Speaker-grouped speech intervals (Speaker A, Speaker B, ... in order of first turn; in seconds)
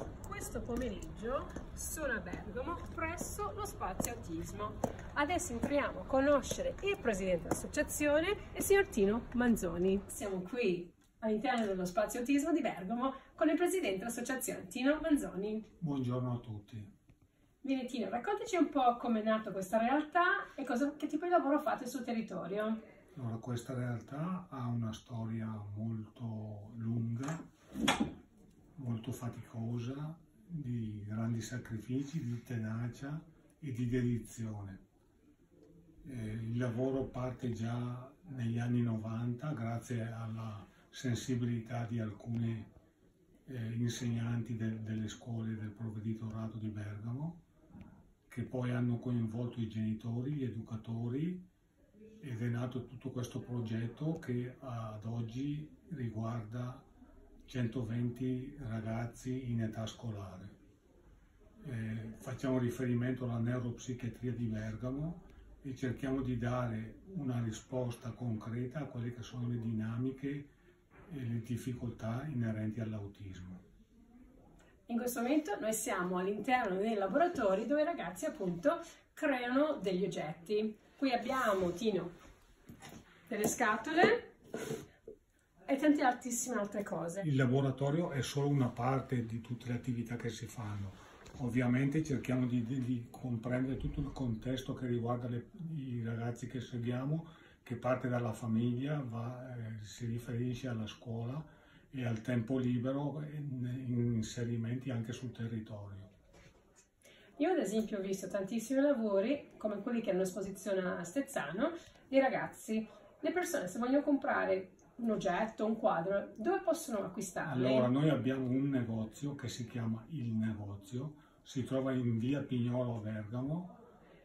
Speaker A: 0.2-15.6, 17.6-22.8, 74.9-82.1, 83.3-84.3, 85.7-87.2, 107.4-117.9
Speaker B: 15.8-16.9, 23.2-27.4, 28.8-34.8, 36.0-42.7, 43.5-47.4, 48.3-51.5, 52.2-56.8, 57.5-60.5, 61.6-70.5, 71.1-73.6, 87.2-106.1, 117.5-123.8